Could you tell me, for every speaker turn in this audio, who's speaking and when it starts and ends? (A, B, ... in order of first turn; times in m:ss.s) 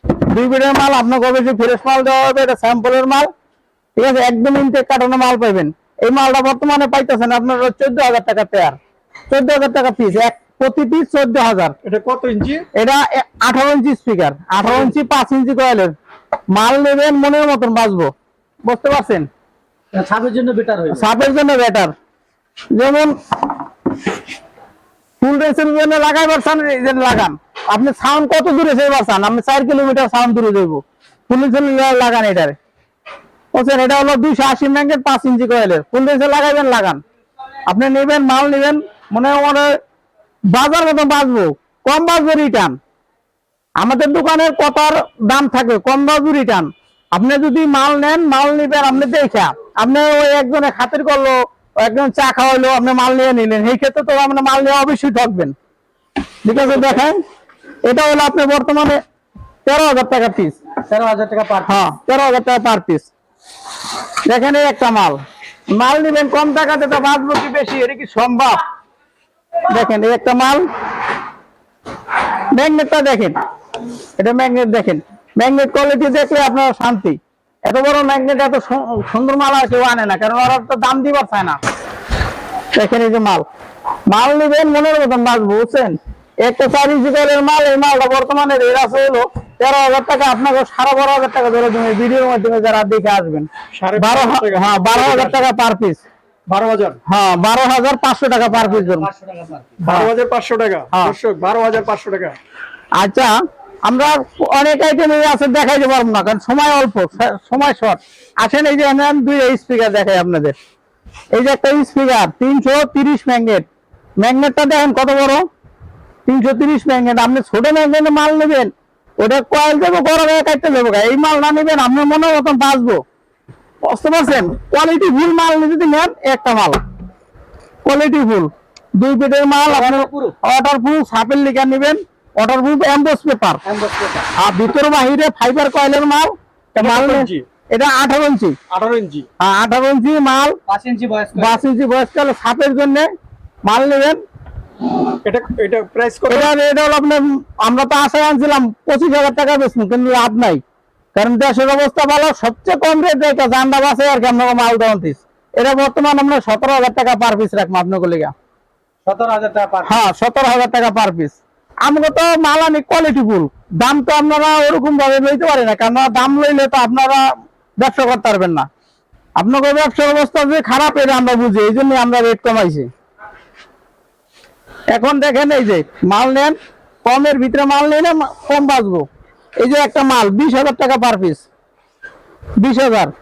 0:00.2-0:03.3 A
0:04.0-0:08.8 A
0:09.3-0:11.8 A
0:11.8-0:12.6 B
0:12.8-0:15.9 A
0:14.7-0:14.9 B
0:16.5-0:18.1 A
0:18.6-0:19.3 A
0:19.9-0:21.0 C
0:20.9-0:21.9 A
0:22.7-0:23.1 A
0:25.2-0:32.6 A
0:33.5-0:37.0 A
0:37.7-0:39.7 A
0:40.5-0:42.8 A
0:43.8-0:55.5 A
0:56.4-0:57.2 A
0:57.9-0:59.0 A
0:59.7-1:00.6 A
1:00.9-1:01.7 C
1:01.6-1:03.1 A
1:04.3-1:05.2 A
1:05.7-1:08.6 A
1:09.7-1:10.6 A
1:12.5-1:13.4 A
1:14.2-1:21.6 A
1:22.7-1:23.5 A
1:24.1-1:36.0 A
1:33.8-1:35.4 B
1:36.5-1:37.0 B
1:37.1-1:39.1 A
1:38.5-1:39.8 C
1:39.8-1:42.4 B
1:43.0-1:43.3 A
1:43.8-1:50.6 A
1:51.3-1:53.7 A
1:54.2-1:55.4 A
1:56.3-2:03.0 A
2:03.8-2:06.8 A
2:07.8-2:13.6 A
2:09.7-2:10.3 C
2:13.6-2:14.3 C
2:14.4-2:18.6 A
2:16.8-2:17.5 B
2:18.7-2:19.3 B
2:19.4-2:20.6 A
2:20.7-2:21.6 C
2:21.4-2:23.1 A
2:23.6-2:24.2 A
2:25.2-2:26.5 B
2:26.3-2:30.6 A
2:31.2-2:38.3 A
2:39.1-2:39.9 C
2:39.8-2:47.3 A
2:47.8-2:48.7 A
2:49.4-2:52.9 A
2:54.9-2:59.1 A
2:59.6-3:01.4 A
3:02.6-3:03.1 A